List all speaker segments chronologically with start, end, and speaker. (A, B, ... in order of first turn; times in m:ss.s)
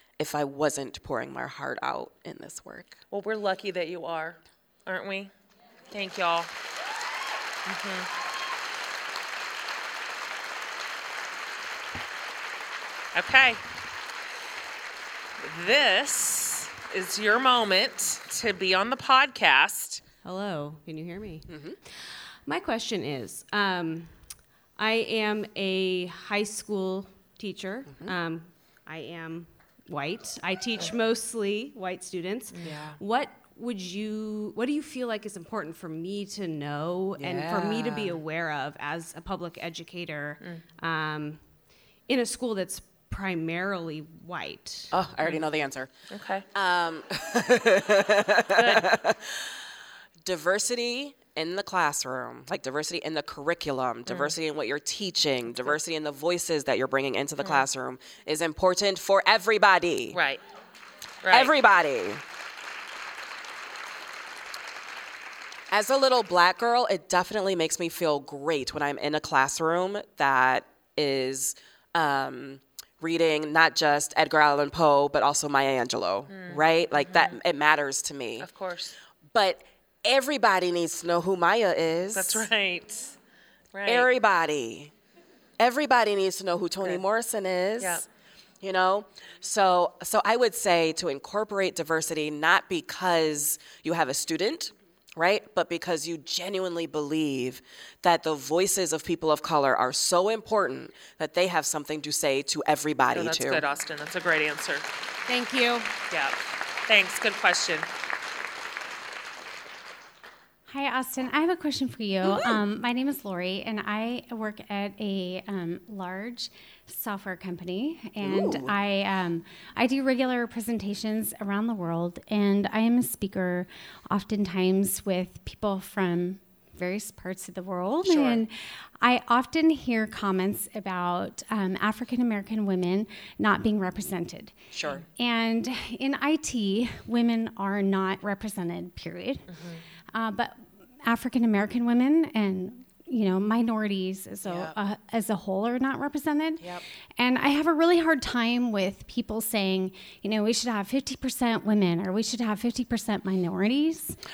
0:00.2-0:03.0 A
0:03.1-0:05.3 B
0:05.9-0:06.5 B
0:07.6-0:08.1 B
0:13.1-0:13.6 B
0:15.4-0:20.0 B
0:20.2-0:45.0 C
0:21.5-0:21.8 A
0:32.6-0:32.8 B
0:32.6-0:33.0 A
0:37.2-0:38.2 A
0:44.9-0:45.9 A
0:46.1-0:46.4 B
0:46.5-0:49.6 A
0:48.5-0:48.9 B
0:50.2-1:00.2 A
0:54.1-0:54.3 B
1:00.1-1:00.4 B
1:01.2-1:01.6 B
1:01.3-1:02.2 A
1:05.7-1:18.5 A
1:16.3-1:17.4 B
1:18.4-1:19.0 B
1:19.3-1:22.5 A
1:22.1-1:23.2 B
1:23.7-1:24.1 B
1:23.9-1:24.9 A
1:25.6-1:28.1 A
1:27.8-1:28.1 B
1:28.6-1:43.6 A
1:43.1-1:44.9 B
1:45.3-1:46.0 C
1:46.1-1:47.9 B
1:50.7-2:14.5 D
1:52.2-1:52.6 A
1:58.2-1:58.8 A
2:08.0-2:08.4 A
2:14.7-2:15.0 A
2:15.2-2:19.5 D
2:19.5-2:19.8 B
2:20.1-2:34.2 D
2:24.4-2:24.8 A